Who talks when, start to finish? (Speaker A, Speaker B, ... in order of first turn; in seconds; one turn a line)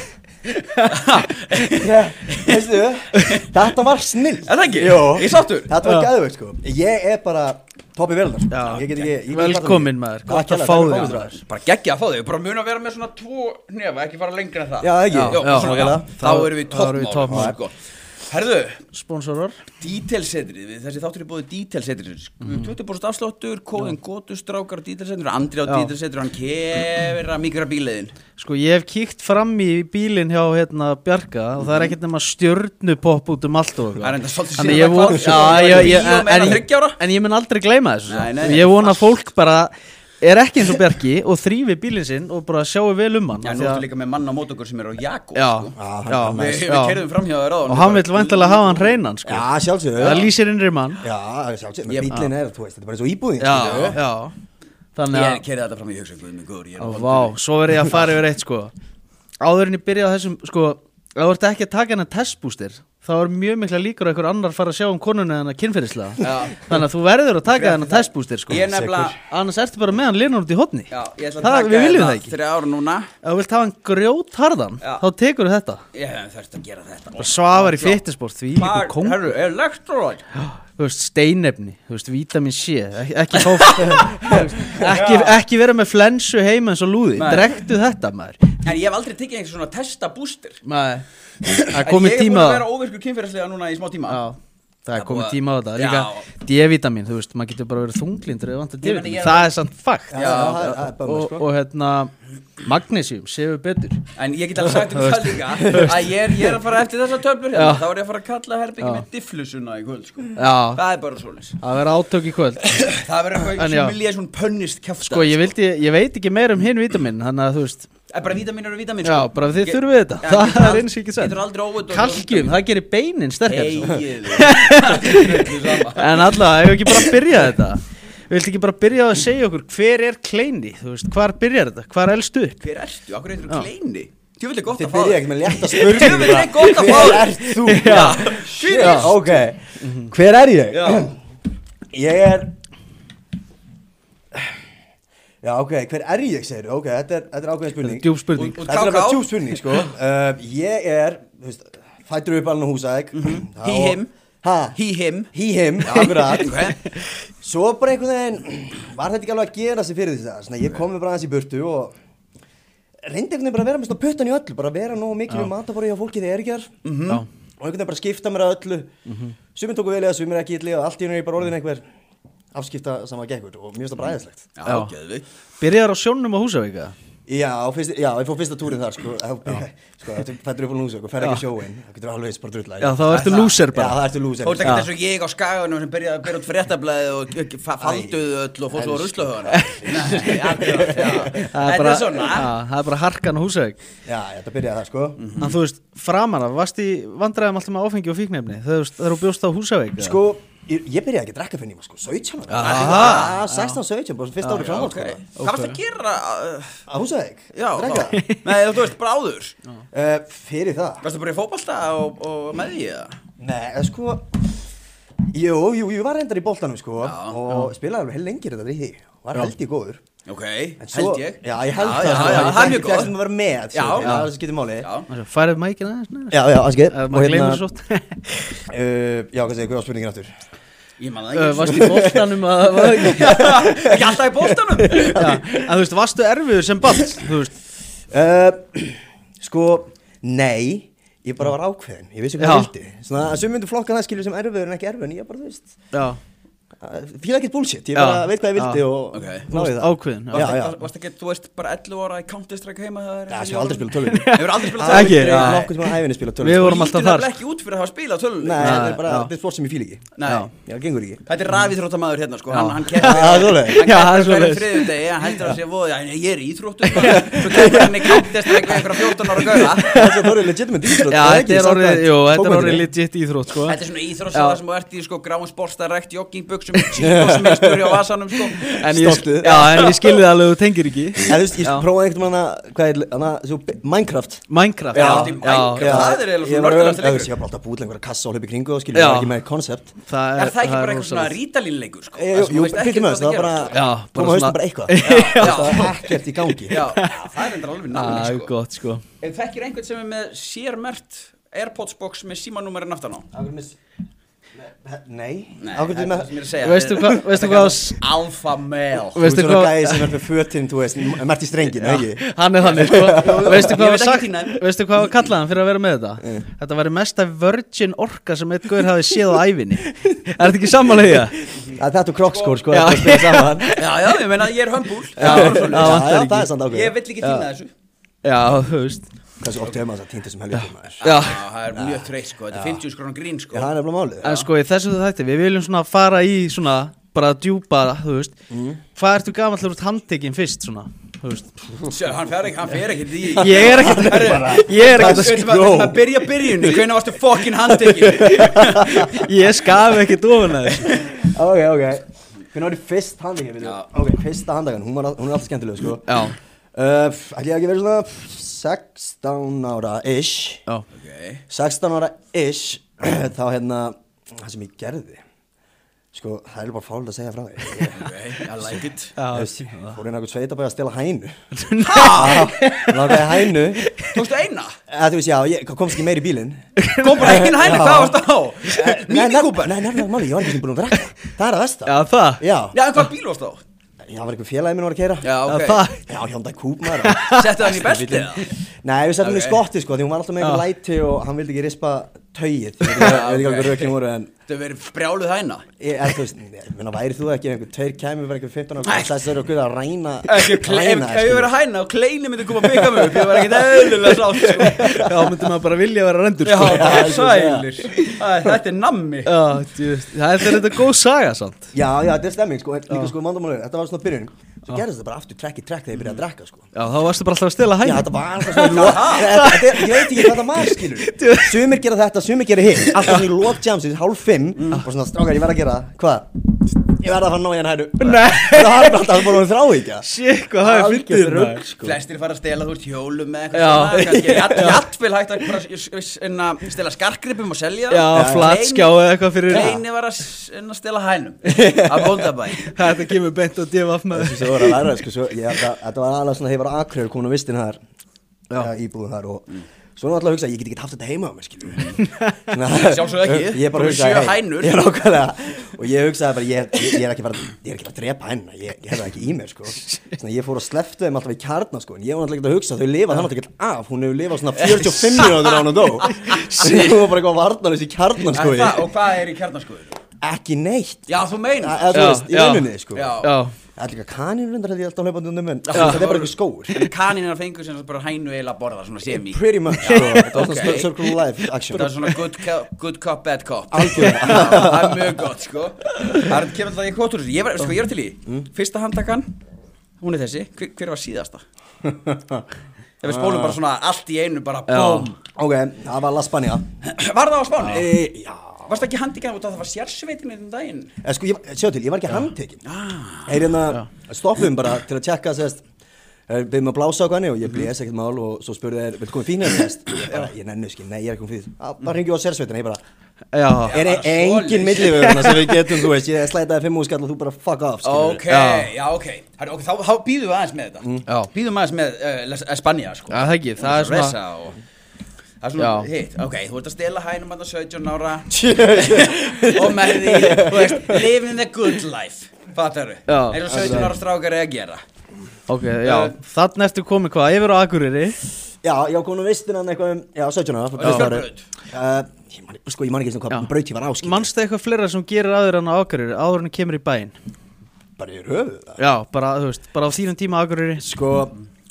Speaker A: 0.5-1.0
Speaker B: 0.9-2.7
Speaker C: 1.7-11.2
Speaker B: 4.4-5.7
Speaker A: 5.8-6.1
Speaker A: 8.5-11.4
Speaker B: 8.7-9.1
Speaker B: 10.9-18.8
Speaker C: 14.8-16.1
Speaker A: 15.1-17.6
Speaker C: 17.3-17.6
Speaker A: 18.9-19.6
Speaker B: 19.8-28.1
Speaker A: 22.4-22.7
Speaker A: 25.7-25.9
Speaker A: 28.4-43.8
Speaker B: 31.6-31.9
Speaker B: 34.0-37.0
Speaker B: 38.1-39.1
Speaker B: 43.4-45.7
Speaker A: 45.3-47.0
Speaker C: 45.7-46.7
Speaker B: 46.3-48.9
Speaker A: 47.7-51.0
Speaker C: 49.2-50.3
Speaker B: 50.0-50.3
Speaker C: 51.0-54.0
Speaker B: 51.9-52.2
Speaker A: 53.4-54.3
Speaker B: 53.5-54.0
Speaker A: 55.0-55.4
Speaker B: 55.1-57.4
Speaker A: 56.8-58.7
Speaker A: 59.4-72.3
Speaker B: 66.2-66.8
Speaker B: 67.5-69.2
Speaker C: 68.5-69.1
Speaker B: 70.9-73.1
Speaker A: 73.2-75.8
Speaker B: 75.9-78.0
Speaker A: 77.2-79.2
Speaker B: 78.5-80.2
Speaker A: 80.4-88.6
Speaker B: 83.4-85.4
Speaker B: 87.2-87.5
Speaker B: 88.6-90.6
Speaker A: 90.7-91.0
Speaker B: 91.5-94.2
Speaker A: 91.7-92.6
Speaker A: 94.1-104.0
Speaker B: 94.9-96.2
Speaker B: 98.8-99.5
Speaker C: 100.1-101.5
Speaker B: 100.1-100.7
Speaker B: 104.2-111.6
Speaker A: 104.7-106.0
Speaker A: 107.5-107.8
Speaker A: 108.8-109.0
Speaker A: 110.3-110.8
Speaker A: 111.6-112.9
Speaker B: 112.8-115.5
Speaker A: 113.5-114.0
Speaker A: 115.1-117.9
Speaker B: 118.1-122.6
Speaker A: 119.0-121.3
Speaker A: 121.9-132.6
Speaker B: 123.5-126.2
Speaker B: 132.6-139.4
Speaker C: 134.7-141.2
Speaker A: 135.7-139.2
Speaker A: 139.8-140.1
Speaker B: 140.7-141.1
Speaker C: 141.9-142.5
Speaker C: 145.4-154.8
Speaker A: 147.8-148.6
Speaker B: 148.3-149.8
Speaker B: 153.1-154.1
Speaker B: 154.8-156.8
Speaker C: 155.3-156.7
Speaker C: 157.4-161.9
Speaker C: 163.0-166.7
Speaker B: 166.8-167.2
Speaker C: 167.6-168.9
Speaker A: 169.1-169.3
Speaker C: 169.5-171.8
Speaker C: 172.5-174.5
Speaker B: 174.6-175.2
Speaker A: 174.7-174.9
Speaker A: 175.6-176.9
Speaker C: 177.3-184.8
Speaker A: 182.8-184.0
Speaker B: 183.1-183.6
Speaker B: 184.4-192.5
Speaker A: 184.6-184.9
Speaker C: 187.8-189.5
Speaker A: 189.5-193.8
Speaker C: 190.1-191.5
Speaker C: 194.1-195.2
Speaker B: 195.2-195.6
Speaker A: 195.4-200.2
Speaker C: 200.0-205.2
Speaker A: 202.5-203.7
Speaker B: 202.6-203.4
Speaker B: 204.5-206.8
Speaker A: 205.3-205.8
Speaker C: 206.9-208.2
Speaker B: 207.5-209.5
Speaker A: 208.1-208.4
Speaker C: 209.9-211.0
Speaker B: 211.0-213.2
Speaker C: 213.4-214.3
Speaker C: 215.3-220.0
Speaker B: 217.0-217.4
Speaker B: 220.2-223.1
Speaker C: 220.8-224.9
Speaker A: 222.2-222.7
Speaker B: 223.7-224.2
Speaker A: 224.0-224.3
Speaker B: 224.8-225.1
Speaker A: 225.1-228.6
Speaker C: 226.3-227.6
Speaker C: 228.7-230.3
Speaker B: 231.0-232.2
Speaker A: 231.3-233.5
Speaker C: 231.7-235.6
Speaker B: 232.8-235.3
Speaker A: 235.1-237.6
Speaker C: 238.1-245.7
Speaker A: 242.4-242.7
Speaker A: 245.9-246.2
Speaker C: 246.8-250.8
Speaker A: 247.9-248.9
Speaker B: 249.1-249.5
Speaker A: 249.5-250.6
Speaker B: 250.3-255.7
Speaker C: 253.3-256.9
Speaker A: 254.1-255.7
Speaker A: 256.4-257.3
Speaker B: 256.5-258.9
Speaker C: 258.4-260.1
Speaker A: 258.6-259.3
Speaker B: 260.2-260.5
Speaker A: 260.2-260.5
Speaker C: 260.6-261.2
Speaker B: 261.3-270.0
Speaker A: 262.5-265.5
Speaker C: 263.0-263.9
Speaker A: 266.8-268.8
Speaker C: 267.0-268.2
Speaker C: 269.2-272.9
Speaker A: 269.5-270.3
Speaker A: 270.9-273.8
Speaker B: 273.6-278.8
Speaker A: 274.3-274.6
Speaker A: 276.7-277.2
Speaker C: 277.0-278.0
Speaker A: 278.7-281.9
Speaker C: 278.7-279.9
Speaker B: 279.4-280.2
Speaker C: 281.2-289.9
Speaker A: 284.5-286.1
Speaker B: 284.9-287.3
Speaker A: 288.9-289.4
Speaker A: 290.1-291.3
Speaker B: 290.4-293.8
Speaker C: 292.2-296.8
Speaker A: 293.7-296.1
Speaker B: 295.0-296.0
Speaker B: 296.7-298.5
Speaker A: 296.7-297.3
Speaker A: 297.9-299.0
Speaker B: 299.2-303.2
Speaker C: 303.3-303.8
Speaker C: 304.6-306.5
Speaker B: 305.6-309.2
Speaker A: 306.6-308.0
Speaker A: 309.1-310.2
Speaker C: 309.2-313.7
Speaker A: 311.7-321.5
Speaker B: 312.6-315.0
Speaker C: 321.8-323.7
Speaker B: 322.3-322.6
Speaker A: 322.7-324.1
Speaker B: 323.8-326.0
Speaker A: 325.1-326.5
Speaker C: 325.2-326.9
Speaker B: 326.7-327.7
Speaker A: 327.2-327.5
Speaker A: 328.2-329.1
Speaker C: 329.4-331.1
Speaker A: 330.5-331.4
Speaker B: 331.0-333.7
Speaker C: 331.7-332.8
Speaker C: 333.5-334.4
Speaker A: 334.2-338.4
Speaker C: 338.5-338.8
Speaker A: 338.9-341.5
Speaker B: 341.8-349.1
Speaker C: 343.3-346.9
Speaker A: 343.4-345.5
Speaker C: 347.6-349.1
Speaker A: 348.4-351.1
Speaker C: 350.7-356.2
Speaker A: 356.1-356.3
Speaker C: 356.7-360.6
Speaker B: 360.9-361.4
Speaker C: 361.5-365.2
Speaker C: 366.1-368.1
Speaker B: 367.8-369.1
Speaker A: 369.1-370.0
Speaker C: 369.3-371.4
Speaker A: 371.5-374.2
Speaker B: 371.8-372.5
Speaker C: 371.9-373.9
Speaker B: 374.1-374.8
Speaker C: 374.9-376.6
Speaker A: 376.8-377.7
Speaker B: 377.0-379.9
Speaker C: 377.1-382.8
Speaker A: 381.9-382.4
Speaker B: 382.7-383.6
Speaker C: 384.1-385.4
Speaker B: 385.2-385.8
Speaker A: 385.4-386.1
Speaker C: 386.1-394.3
Speaker A: 387.0-387.5
Speaker B: 387.3-388.5
Speaker B: 389.2-389.6
Speaker A: 390.4-390.6
Speaker B: 392.9-393.9
Speaker B: 394.5-395.6
Speaker C: 395.8-401.5
Speaker B: 398.8-399.2
Speaker B: 400.3-405.1
Speaker C: 402.8-405.1
Speaker A: 404.7-407.2
Speaker B: 406.4-409.4
Speaker C: 406.6-408.1
Speaker A: 409.2-411.7
Speaker C: 411.7-416.7
Speaker A: 416.7-421.6
Speaker C: 417.8-430.1
Speaker B: 418.7-419.4
Speaker B: 424.6-424.8
Speaker A: 428.0-429.2
Speaker A: 430.0-431.6
Speaker C: 430.6-432.0
Speaker B: 431.8-442.8
Speaker A: 433.5-434.8
Speaker A: 437.9-439.8
Speaker C: 438.1-438.5
Speaker C: 439.5-439.8
Speaker A: 442.6-444.8
Speaker C: 444.1-447.8
Speaker C: 448.6-468.9
Speaker A: 452.0-452.4
Speaker B: 452.7-454.8
Speaker B: 464.5-466.9
Speaker B: 468.3-470.0
Speaker C: 470.2-473.2
Speaker B: 471.1-472.0
Speaker A: 471.9-472.7
Speaker B: 472.9-473.4
Speaker A: 473.2-473.5
Speaker C: 473.8-476.8
Speaker B: 475.7-480.9
Speaker A: 475.7-476.0
Speaker C: 479.1-482.1
Speaker A: 479.8-480.6
Speaker A: 481.7-482.1
Speaker B: 481.7-489.3
Speaker C: 483.7-485.1
Speaker A: 483.9-484.6
Speaker A: 486.0-486.3
Speaker B: 490.0-491.4
Speaker C: 491.8-492.4
Speaker B: 493.0-495.2
Speaker C: 493.0-493.6
Speaker A: 494.7-495.1
Speaker C: 495.2-496.6
Speaker B: 496.8-497.9
Speaker C: 497.6-498.9
Speaker B: 498.7-500.9
Speaker C: 501.0-502.6
Speaker B: 502.6-503.4
Speaker C: 503.2-505.6
Speaker C: 506.3-512.8
Speaker A: 513.3-513.8
Speaker B: 513.6-515.2
Speaker C: 513.7-518.3
Speaker A: 515.0-515.5
Speaker B: 517.8-524.6
Speaker A: 518.3-518.7
Speaker A: 523.1-524.1
Speaker B: 525.4-534.8
Speaker A: 525.6-525.9
Speaker C: 528.3-531.1
Speaker A: 533.1-533.9
Speaker C: 533.5-534.0
Speaker A: 535.5-538.2
Speaker B: 535.8-536.1
Speaker C: 538.6-544.3
Speaker B: 540.8-541.4
Speaker A: 540.8-541.1
Speaker A: 544.0-547.1
Speaker C: 548.0-548.8
Speaker A: 548.8-550.9
Speaker C: 550.8-551.4